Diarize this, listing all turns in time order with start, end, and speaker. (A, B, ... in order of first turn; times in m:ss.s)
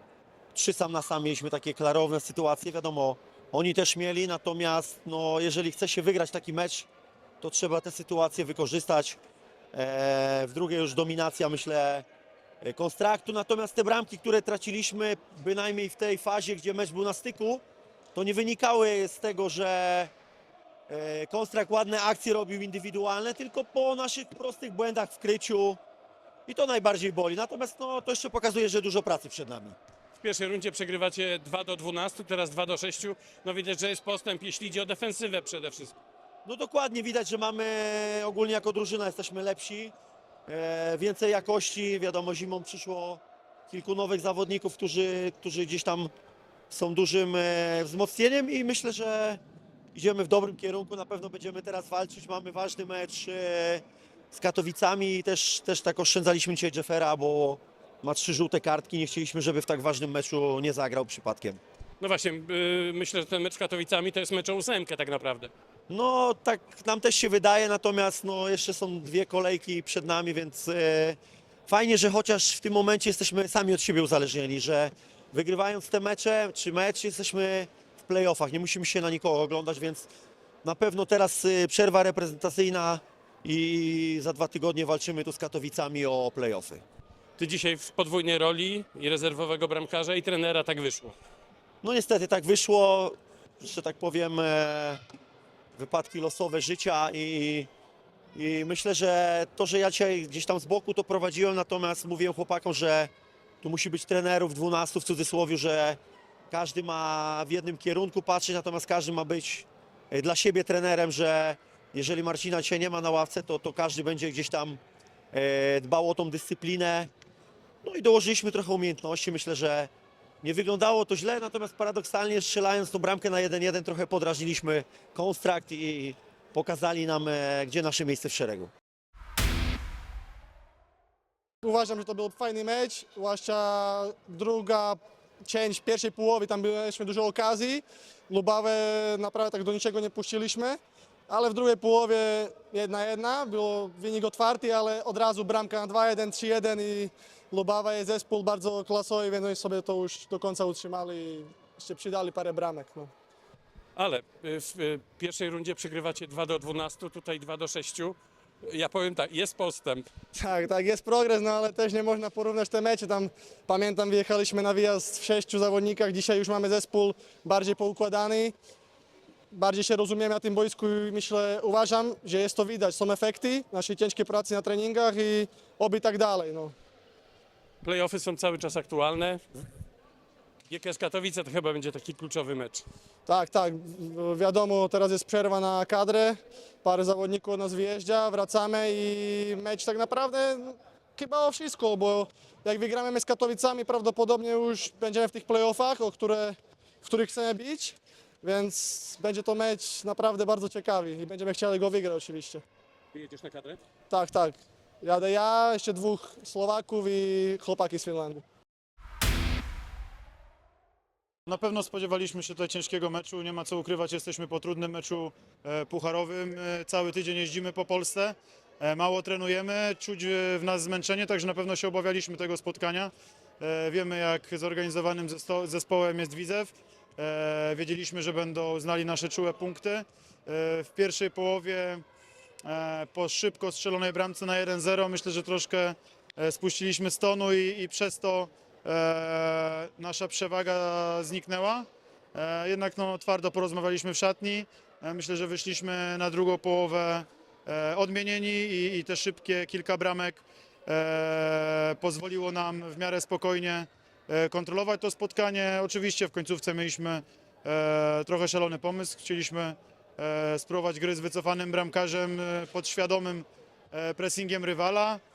0:00.5-0:06.9 A
0:07.4-0:09.2 A
0:09.7-0:12.1 A
0:12.6-0:17.6 A
0:18.2-0:20.1 A
0:20.9-0:25.8 A
0:26.5-0:29.8 A
0:30.2-0:36.0 B
0:36.4-0:39.9 A
0:40.5-0:46.1 A
0:46.7-0:49.4 A
0:50.0-1:01.6 A
1:02.0-1:05.5 B
1:05.9-1:20.1 A
1:20.6-1:26.8 A
1:27.4-1:31.2 B
1:31.8-1:35.0 A
1:35.8-1:37.7 A
1:38.4-1:46.0 A
1:46.5-1:54.8 A
1:55.3-1:57.1 A
1:57.8-1:59.9 A
2:00.4-2:08.7 A
2:11.6-2:33.1 C
2:34.0-2:40.1 B
2:40.3-2:48.6 C
2:49.5-2:56.8 C
2:57.8-2:59.4 B
3:00.7-3:02.8 B
3:03.3-3:22.6 C
3:23.1-3:23.8 B
3:24.1-3:28.4 C
3:31.5-3:52.0 D
3:52.6-4:25.2 D